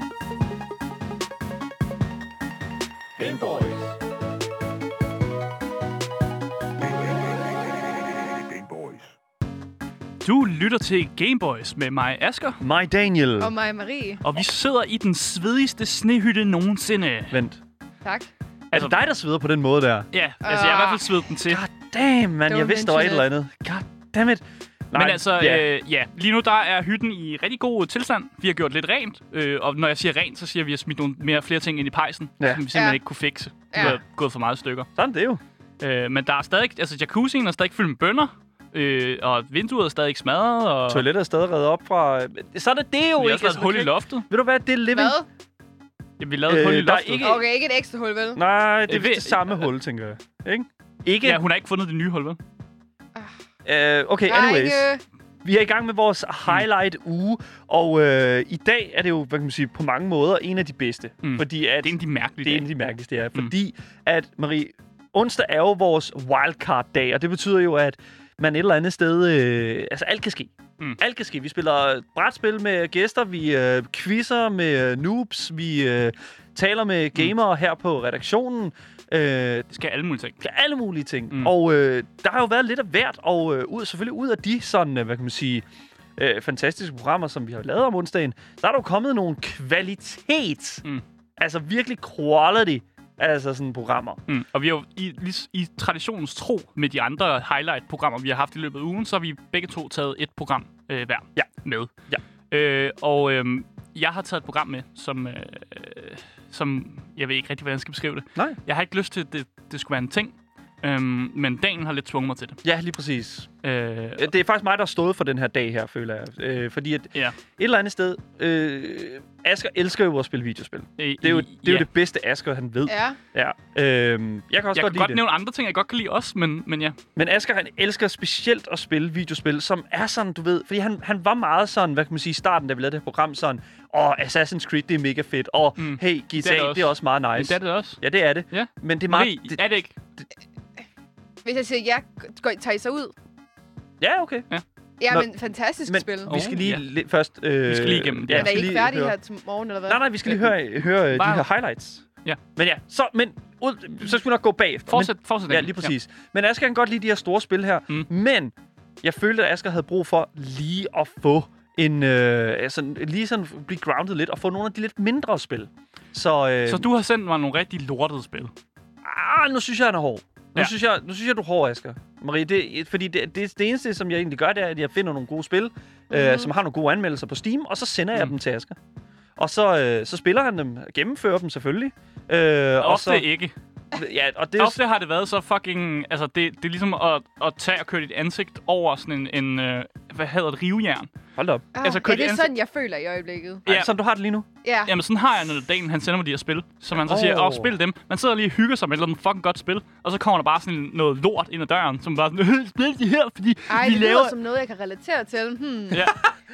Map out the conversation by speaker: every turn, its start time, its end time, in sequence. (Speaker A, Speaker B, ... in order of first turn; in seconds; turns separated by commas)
Speaker A: 3.2-3.9, Speaker A: 6.8-7.9, Speaker A: 8.5-9.0, Speaker B: 10.2-12.6, Speaker C: 12.6-13.5, Speaker D: 13.4-14.2, Speaker B: 14.2-17.4, Speaker C: 17.3-17.6, Speaker C: 18.7-20.1, Speaker B: 20.1-21.6, Speaker D: 20.4-21.1, Speaker C: 21.4-25.6, Speaker D: 22.5-23.2, Speaker B: 24.9-34.9, Speaker C: 32.4-32.6, Speaker D: 32.7-33.0, Speaker D: 33.7-34.0, Speaker C: 35.0-35.4, Speaker B: 35.8-41.0, Speaker C: 40.9-45.2, Speaker B: 43.2-44.2, Speaker D: 44.9-45.2, Speaker B: 46.2-47.4, Speaker C: 46.5-47.5, Speaker D: 47.2-48.4, Speaker C: 48.3-51.4, Speaker B: 48.9-49.7, Speaker B: 51.2-52.4, Speaker C: 53.6-54.9, Speaker D: 54.2-55.0, Speaker C: 55.4-79.7, Speaker B: 61.2-62.7, Speaker B: 79.7-80.4, Speaker C: 80.4-85.7, Speaker C: 86.2-90.8, Speaker C: 91.4-94.2, Speaker B: 94.3-101.9, Speaker B: 102.5-112.6, Speaker C: 112.6-113.5, Speaker B: 113.6-114.3, Speaker C: 114.2-125.2, Speaker B: 121.0-121.9, Speaker D: 122.9-123.2, Speaker B: 124.7-127.0, Speaker C: 127.2-139.6, Speaker B: 135.8-138.0, Speaker B: 138.5-139.9, Speaker D: 141.4-143.1, Speaker C: 144.0-144.5, Speaker D: 145.0-146.3, Speaker C: 145.8-149.1, Speaker B: 146.3-146.8, Speaker B: 147.7-148.8, Speaker D: 148.3-150.0, Speaker C: 149.9-152.0, Speaker B: 151.1-151.5, Speaker C: 152.6-166.9, Speaker B: 154.9-155.9, Speaker B: 166.7-168.5, Speaker C: 169.0-178.8, Speaker D: 176.1-176.5, Speaker C: 179.4-183.3, Speaker B: 182.8-183.5, Speaker C: 183.9-184.8, Speaker B: 184.6-191.1, Speaker C: 191.3-191.7, Speaker B: 191.7-192.5, Speaker D: 191.8-193.6, Speaker B: 193.7-193.9, Speaker C: 193.7-194.5, Speaker D: 194.6-194.9, Speaker B: 194.8-203.9, Speaker C: 196.9-197.7, Speaker D: 203.7-206.0, Speaker C: 203.7-204.3, Speaker B: 205.9-206.2